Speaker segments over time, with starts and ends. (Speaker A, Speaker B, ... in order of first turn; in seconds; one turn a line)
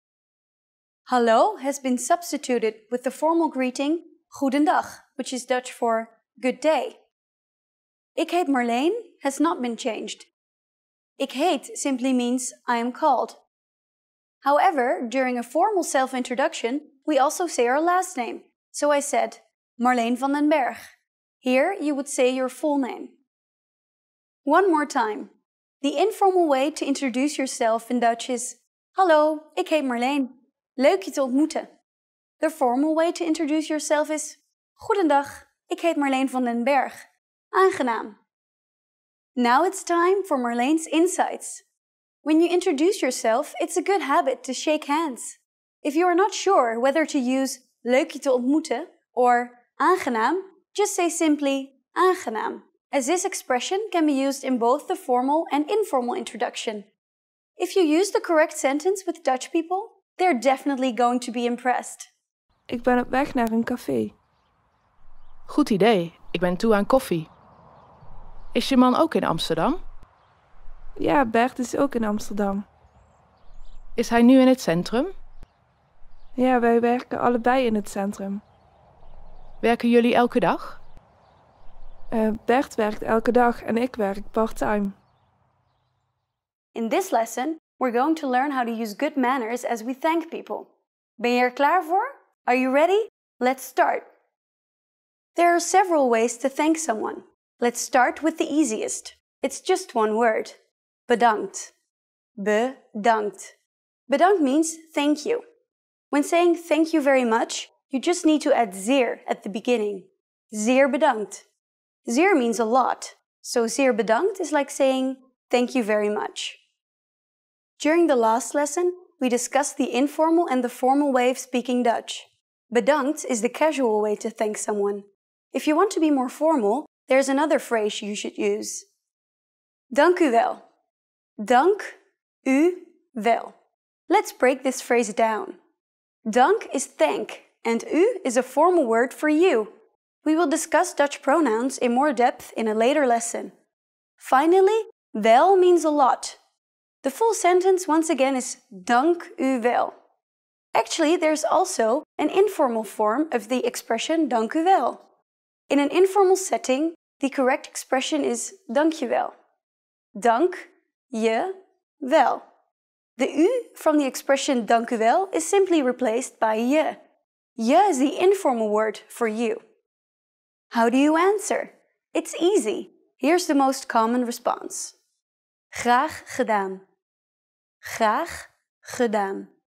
Speaker A: 1.1-7.0
Speaker A: 8.2-10.3
Speaker A: 11.2-13.4
Speaker A: 14.4-20.8
Speaker A: 21.4-23.1
Speaker A: 24.4-31.7
Speaker A: 32.4-38.2
Speaker A: 39.4-41.6
Speaker A: 42.2-56.9
Speaker A: 57.6-62.1
Speaker B: 62.7-64.1
Speaker C: 65.5-67.3
Speaker C: 68.5-69.8
Speaker B: 71.0-72.7
Speaker C: 74.0-75.1
Speaker B: 76.4-78.4
Speaker C: 79.6-80.8
Speaker B: 82.1-85.0
Speaker A: 86.7-94.1
Speaker A: 95.3-100.6
Speaker A: 101.1-101.7
Speaker A: 102.4-103.5
Speaker A: 104.1-105.4
Speaker A: 106.1-111.4
Speaker A: 112.1-116.6
Speaker A: 117.8-128.8
Speaker A: 129.9-130.6
Speaker A: 131.4-133.6
Speaker A: 134.1-135.6
Speaker A: 136.3-139.7
Speaker A: 140.2-143.5
Speaker A: 144.2-146.4
Speaker A: 147.0-149.9
Speaker A: 150.7-155.0
Speaker A: 155.7-159.3
Speaker A: 160.2-162.5
Speaker A: 163.2-167.0
Speaker A: 167.6-169.6
Speaker A: 170.7-174.9
Speaker A: 175.7-176.8
Speaker A: 177.8-179.5